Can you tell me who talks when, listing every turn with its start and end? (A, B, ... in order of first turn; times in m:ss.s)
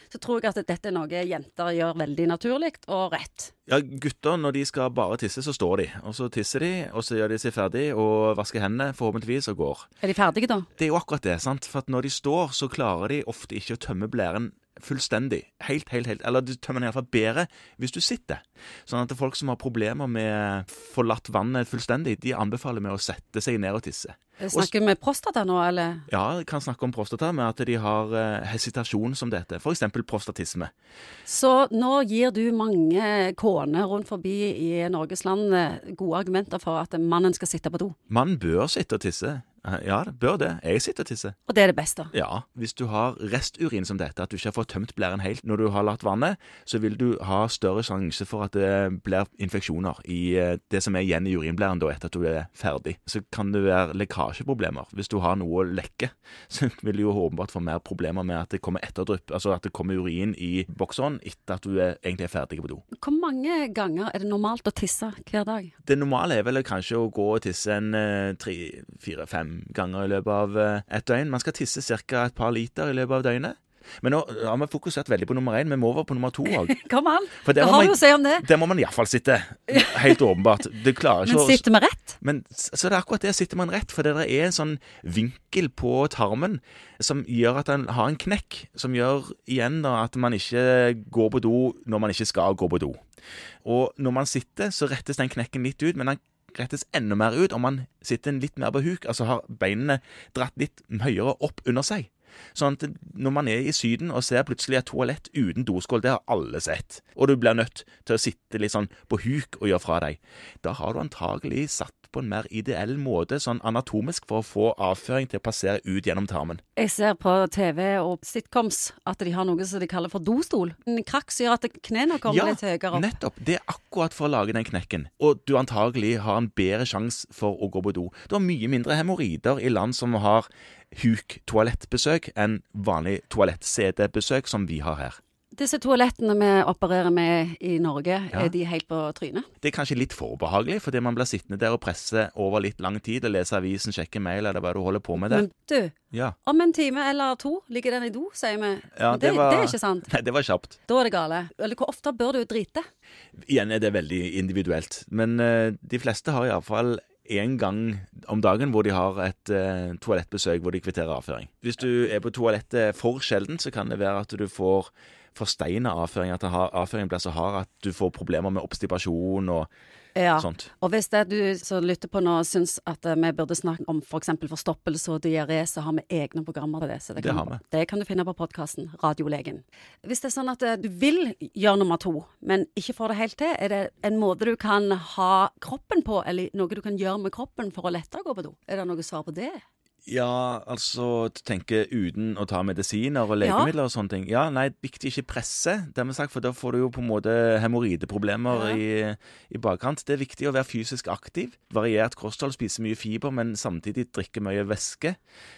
0:00.1-0:03.5 A
0:03.7-0:09.9 B
0:10.0-0:10.7 A
0:10.8-0:24.7 B
0:24.4-0:26.0 A
0:26.1-0:30.7 B
0:31.3-0:38.0 A
0:38.1-0:41.4 B
0:41.5-0:42.1 A
0:42.1-1:02.8 B
1:03.0-1:05.7 A
1:05.8-1:16.8 B
1:16.5-1:18.5 A
1:17.4-1:21.6 B
1:19.7-1:20.2 A
1:21.2-1:22.2 A
1:22.2-1:33.0 B
1:33.6-1:56.6 B
1:56.8-2:03.1 A
2:02.2-2:15.2 B
2:15.5-2:19.5 A
2:19.6-2:25.5 B
2:25.2-2:30.1 A
2:29.0-2:30.8 B
2:30.9-2:32.9 A
2:33.5-2:49.7 B
2:50.2-3:09.6 A
2:50.4-2:50.7 B
2:57.2-2:57.6 B
3:10.1-3:25.2 B
3:13.4-3:13.7 A
3:18.5-3:18.8 A